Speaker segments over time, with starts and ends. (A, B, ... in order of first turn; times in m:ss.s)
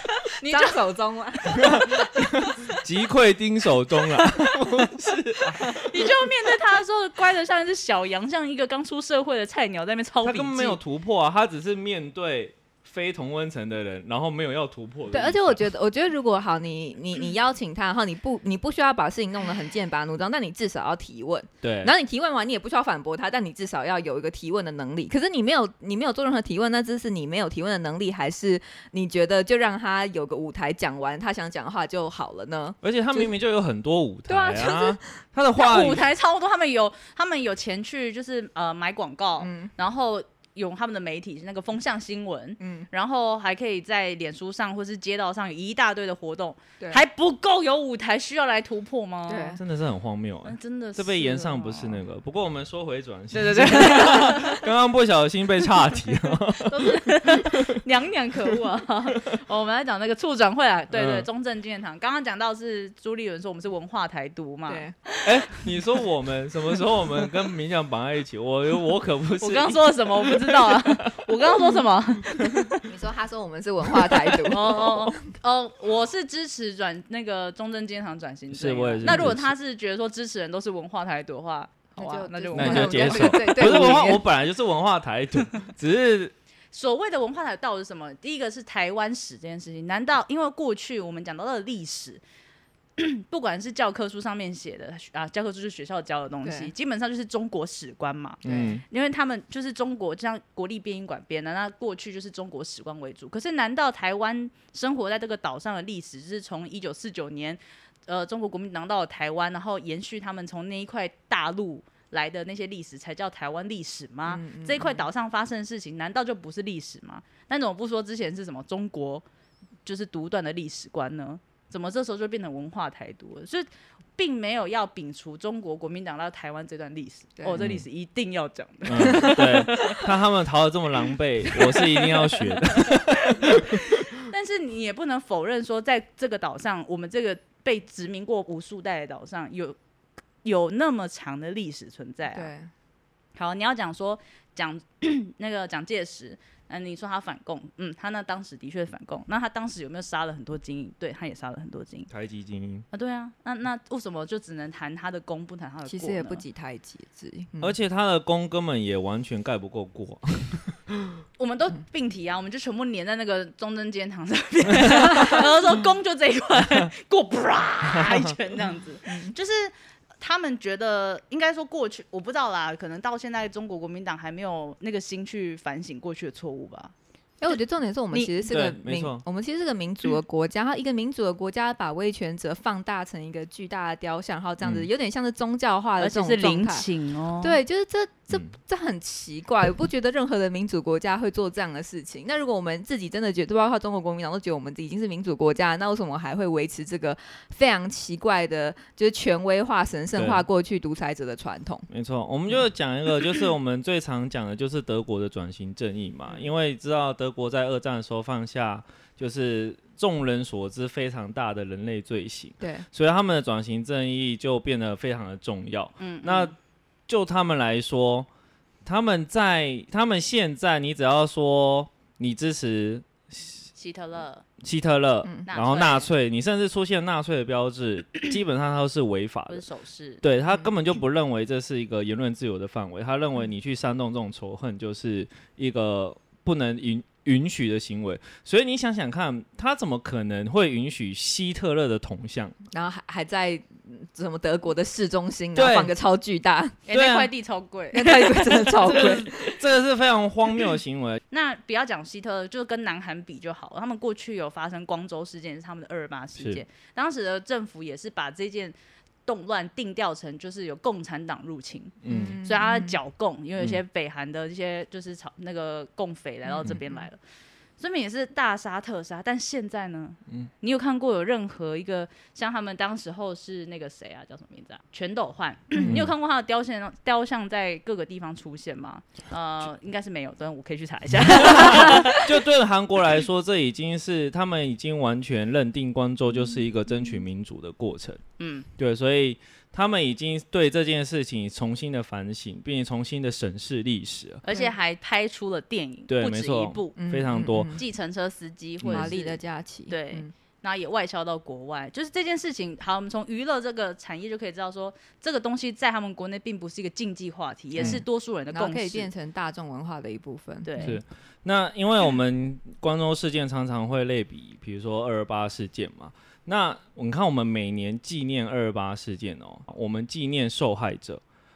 0:00.3-0:00.8 A
0:00.4-0:02.5 B
0:01.5-0:06.2 C
0:04.2-0:04.5 B
0:05.6-0:10.8 A
0:10.2-0:15.6 C
0:15.1-0:33.3 B
0:21.6-0:21.9 C
0:32.8-0:36.1 C
0:34.3-0:35.0 B
0:35.6-0:49.6 A
0:39.4-0:39.7 B
0:42.6-0:42.9 B
0:49.3-0:49.6 B
0:49.6-0:57.7 C
0:50.4-0:52.0 A
0:53.3-0:54.6 A
0:54.0-0:54.3 B
0:56.6-1:05.6 A
1:00.9-1:01.3 C
1:04.7-1:04.9 B
1:05.2-1:11.6 C
1:09.4-1:12.8 A
1:12.8-1:15.2 B
1:14.5-1:24.0 A
1:18.5-1:19.5 C
1:19.0-1:19.4 B
1:22.0-1:24.2 B
1:22.5-1:26.3 C
1:26.7-1:32.2 A
1:33.0-1:59.2 A
1:36.4-1:36.7 B
1:38.4-1:38.8 B
1:38.4-1:38.8 C
1:54.3-1:55.0 B
1:59.8-2:10.0 A
2:07.6-2:07.8 C
2:08.8-2:13.9 C
2:09.0-2:09.5 B
2:11.5-2:19.8 A
2:20.4-2:22.5 A
2:22.3-2:22.7 B
2:23.3-2:32.1 A
2:32.1-2:32.8 C
2:32.9-2:36.4 A
2:35.9-2:37.7 B
2:37.6-2:41.0 C
2:41.4-2:56.9 A
2:44.7-2:45.1 C
2:47.9-2:48.3 C
2:49.1-2:49.3 B
2:57.4-3:06.9 B
2:58.5-2:59.2 C
3:04.6-3:04.9 C
3:06.0-3:07.6 A
3:07.4-3:21.9 B
3:20.2-3:20.4 C
3:21.9-3:36.5 C
3:36.0-3:36.5 A
3:37.1-3:38.3 C
3:38.8-3:43.6 C
3:43.7-3:44.4 A
3:44.6-3:49.6 C
3:45.5-3:46.1 A
3:49.5-3:50.2 A
3:50.2-4:02.6 C
4:02.7-4:06.8 B
4:05.6-4:05.9 C
4:06.9-4:09.2 A
4:06.9-4:07.3 C
4:07.9-4:09.6 B
4:08.8-4:11.2 C
4:11.3-4:18.7 A
4:16.4-4:16.6 C
4:19.2-4:27.2 A
4:22.0-4:22.4 C
4:22.1-4:23.0 B
4:26.5-4:27.0 B
4:27.8-4:42.3 A
4:35.8-4:36.0 B
4:35.8-4:36.1 C
4:41.3-4:48.2 C
4:48.4-4:48.7 A
4:48.8-4:54.4 C
4:54.4-4:57.0 A
4:56.1-4:57.8 C
4:57.0-4:57.8 B
4:57.7-5:09.1 A
4:58.8-4:59.1 C
4:58.9-5:00.3 B
5:07.8-5:08.0 C
5:07.8-5:10.9 B
5:10.6-5:11.0 A
5:10.8-5:21.2 C